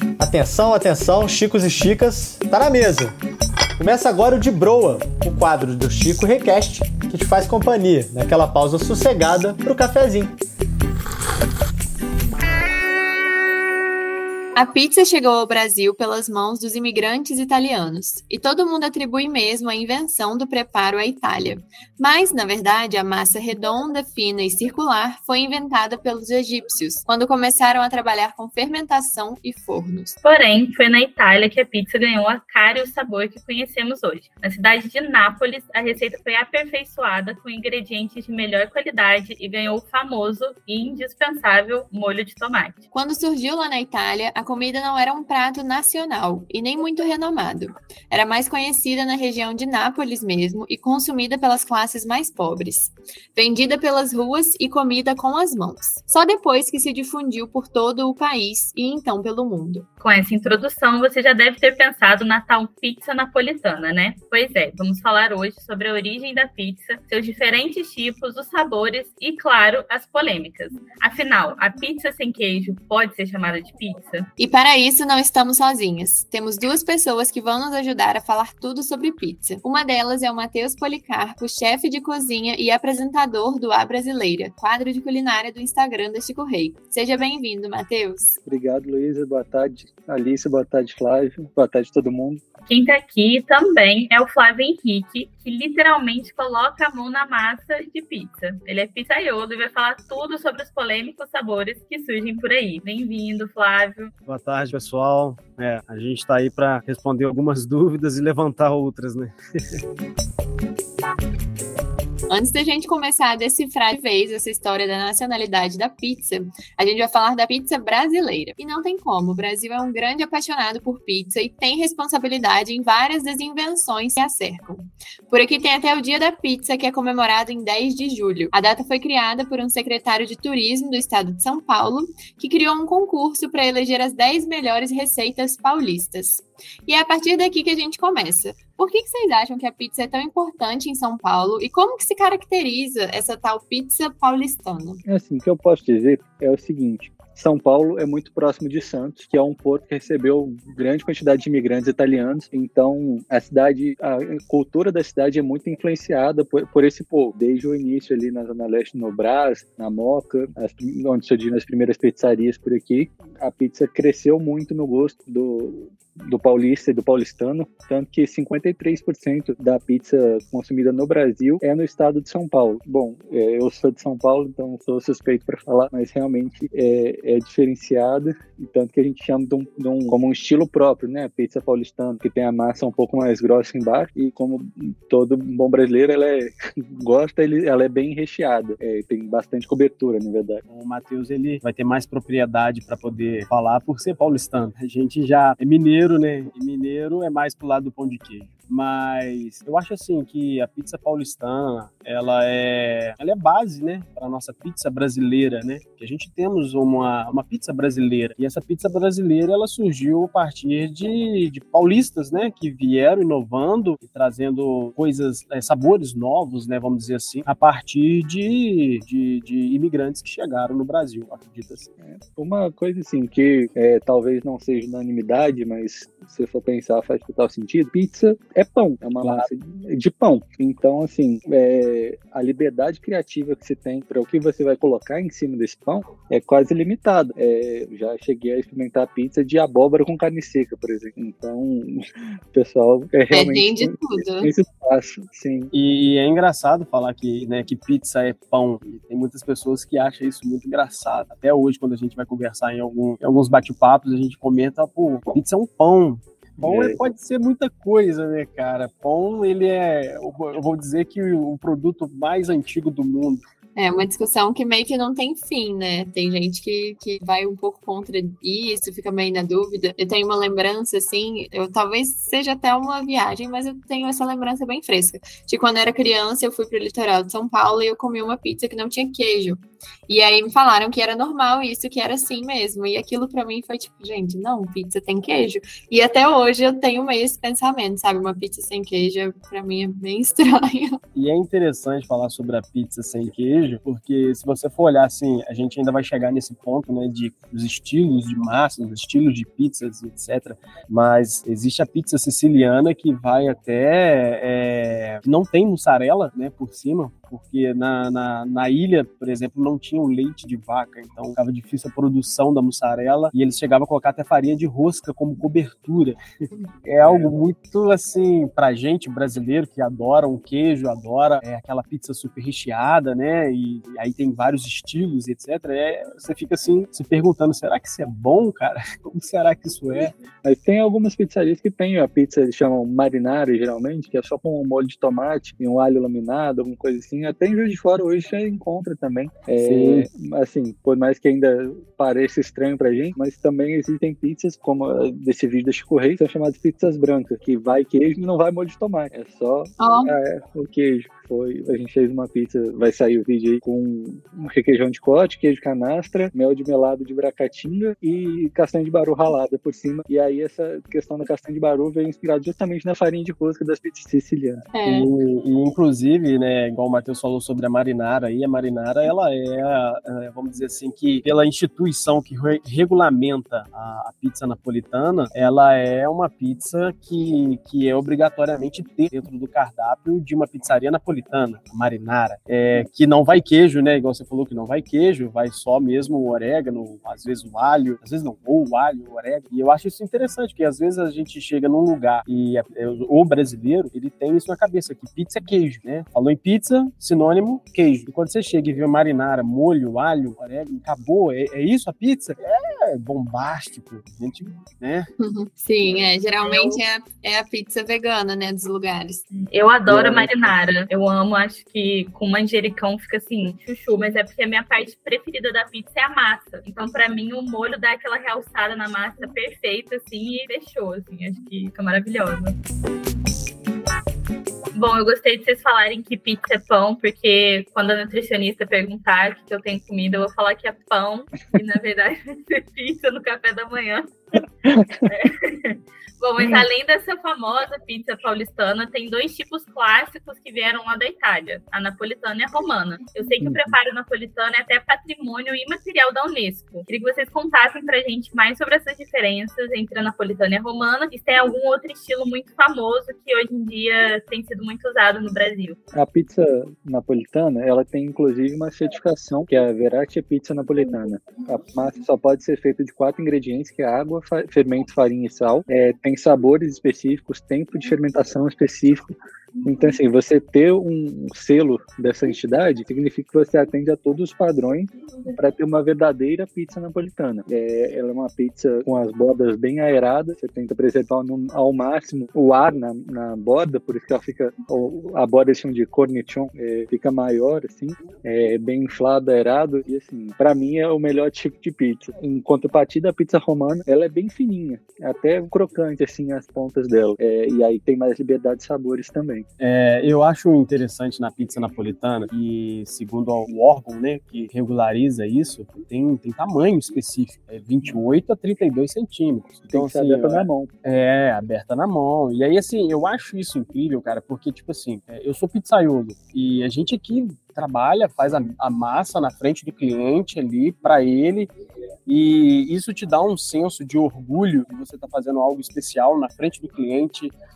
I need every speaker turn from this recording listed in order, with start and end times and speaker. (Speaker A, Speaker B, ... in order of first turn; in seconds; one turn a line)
Speaker A: 0.2-3.1
Speaker A: 3.8-10.4
Speaker B: 14.6-30.1
Speaker C: 30.2-42.8
Speaker B: 42.9-59.9
Speaker C: 60.0-74.3
Speaker B: 74.4-88.4
Speaker D: 88.5-92.4
Speaker C: 92.7-104.1
Speaker E: 104.2-109.8
Speaker B: 112.3-145.0
Speaker D: 145.1-190.6
Speaker E: 190.7-221.9
Speaker D: 222.0-245.7
Speaker E: 229.2-229.5
Speaker B: 243.3-244.5
Speaker E: 245.7-263.4
Speaker D: 256.6-257.0
Speaker B: 263.8-291.0
Speaker E: 291.1-316.2
Speaker E: 316.8-330.1
Speaker D: 317.0-317.3
Speaker D: 330.4-364.7
Speaker E: 339.6-340.0
Speaker B: 349.8-350.1
Speaker B: 364.7-365.1
Speaker E: 364.8-405.1
Speaker B: 405.2-409.2
Speaker C: 406.4-406.8
Speaker C: 409.3-422.6
Speaker E: 409.9-410.3
Speaker C: 424.7-434.4
Speaker D: 434.6-435.0
Speaker C: 435.0-455.8
Speaker D: 436.4-436.6
Speaker D: 443.4-443.8
Speaker D: 455.9-499.4
Speaker E: 499.6-521.5
Speaker D: 509.7-510.7
Speaker E: 522.1-527.3